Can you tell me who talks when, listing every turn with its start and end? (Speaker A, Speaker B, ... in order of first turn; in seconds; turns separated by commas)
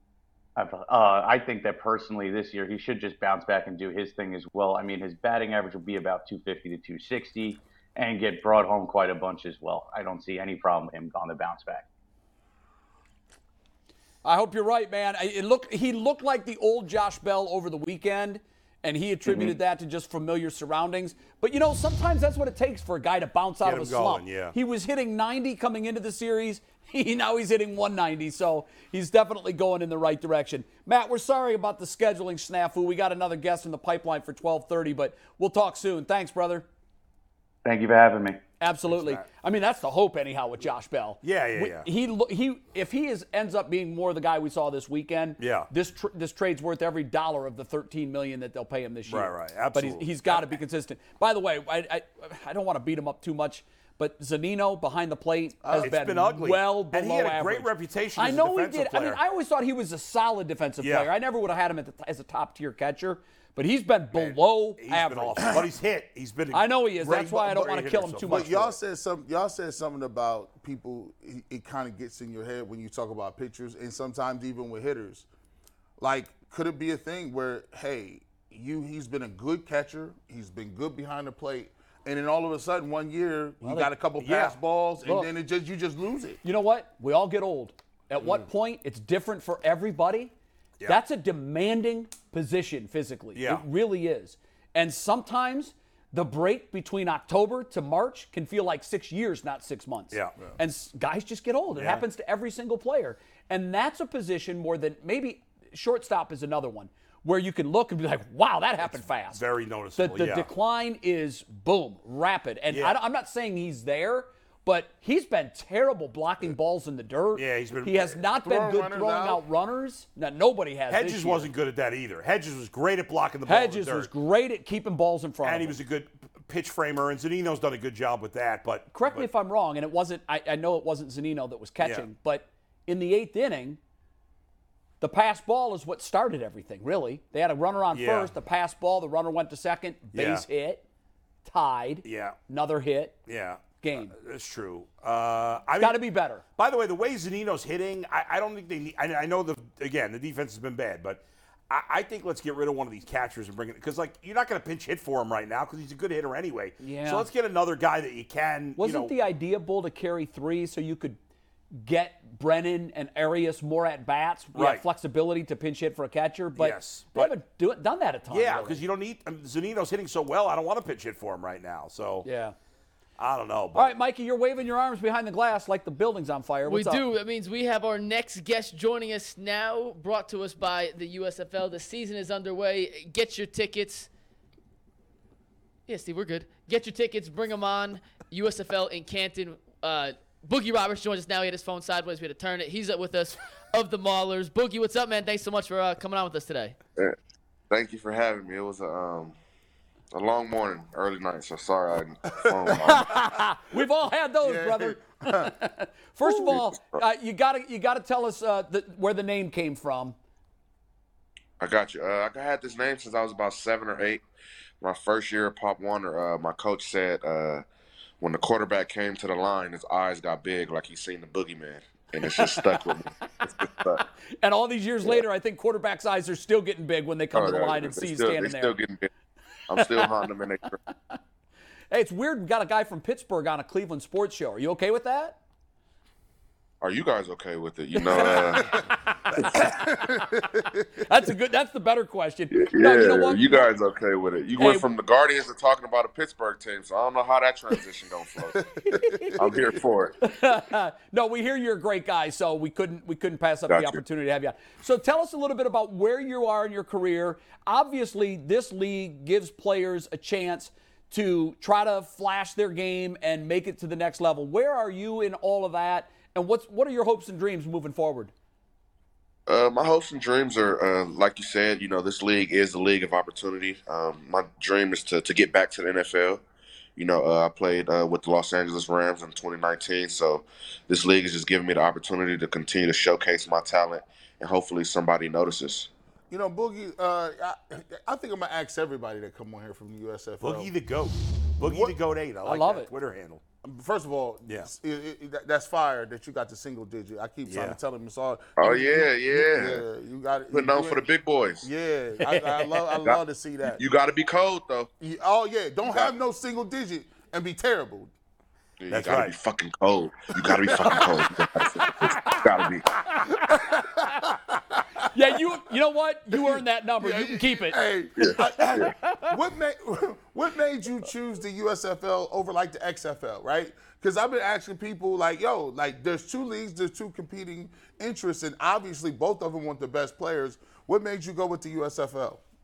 Speaker A: 0.6-11.8, Speaker B: 14.2-36.7, Speaker A: 19.2-19.5, Speaker C: 23.6-24.5, Speaker A: 37.6-38.4, Speaker B: 38.6-65.6, Speaker C: 38.9-39.2, Speaker C: 41.2-41.9, Speaker C: 45.4-45.7, Speaker C: 49.0-50.5, Speaker D: 55.6-56.0, Speaker C: 55.8-59.2, Speaker C: 60.8-61.1, Speaker C: 64.1-68.5, Speaker B: 66.5-68.7, Speaker D: 68.2-75.2, Speaker D: 76.0-86.4, Speaker B: 83.6-83.9, Speaker C: 84.2-84.5, Speaker B: 85.0-85.3, Speaker B: 86.4-90.3, Speaker B: 90.8-109.4, Speaker C: 93.3-93.6, Speaker C: 100.1-100.4, Speaker C: 101.7-102.0, Speaker C: 108.8-110.5, Speaker B: 110.0-121.5, Speaker C: 112.7-113.0, Speaker C: 117.3-118.2, Speaker D: 118.3-119.4, Speaker C: 120.9-124.1, Speaker B: 123.5-125.7, Speaker C: 125.4-129.3, Speaker B: 128.9-133.8, Speaker C: 131.8-132.1, Speaker B: 135.0-140.8, Speaker C: 137.9-138.3, Speaker C: 140.1-140.4, Speaker B: 141.4-143.2, Speaker C: 142.0-142.4, Speaker C: 143.3-146.0, Speaker B: 143.8-144.1, Speaker B: 145.8-146.4, Speaker C: 146.6-159.1, Speaker B: 156.8-157.3, Speaker B: 158.8-161.2, Speaker B: 161.8-168.8, Speaker C: 164.5-164.8, Speaker C: 166.6-167.3, Speaker C: 168.3-172.3, Speaker B: 172.2-172.5, Speaker C: 173.2-173.9, Speaker B: 173.7-177.0, Speaker E: 176.6-184.1, Speaker E: 185.9-196.8, Speaker F: 197.7-199.3, Speaker F: 200.1-203.1, Speaker D: 202.4-203.1, Speaker B: 202.8-210.2, Speaker D: 204.4-205.5, Speaker F: 206.4-207.0, Speaker F: 211.6-214.2, Speaker F: 214.8-217.6, Speaker F: 218.2-224.0, Speaker B: 222.2-222.8, Speaker B: 224.0-228.7, Speaker F: 227.3-229.1, Speaker F: 229.7-230.8, Speaker B: 229.8-230.3, Speaker B: 231.9-235.4, Speaker F: 236.8-238.8, Speaker B: 237.9-243.7, Speaker D: 238.2-238.8, Speaker D: 239.4-240.8, Speaker F: 242.5-248.6, Speaker B: 244.6-244.9, Speaker D: 248.6-249.7, Speaker B: 248.9-249.5, Speaker F: 249.3-250.2, Speaker B: 250.2-268.3, Speaker F: 253.7-254.0, Speaker F: 269.5-276.4, Speaker F: 276.9-285.9, Speaker D: 286.3-290.7, Speaker C: 290.4-293.4, Speaker D: 291.6-291.9, Speaker B: 292.4-292.9, Speaker D: 293.6-301.0, Speaker C: 297.4-297.8, Speaker F: 298.6-299.8, Speaker F: 300.5-301.7, Speaker D: 301.6-303.8, Speaker B: 302.2-302.8, Speaker F: 303.7-304.9, Speaker D: 305.0-308.1, Speaker F: 308.8-312.8, Speaker C: 308.9-309.3, Speaker D: 310.4-311.3, Speaker B: 311.9-314.1, Speaker D: 313.3-315.5, Speaker B: 315.1-317.8, Speaker D: 316.3-332.4, Speaker F: 318.2-318.9, Speaker B: 318.7-319.3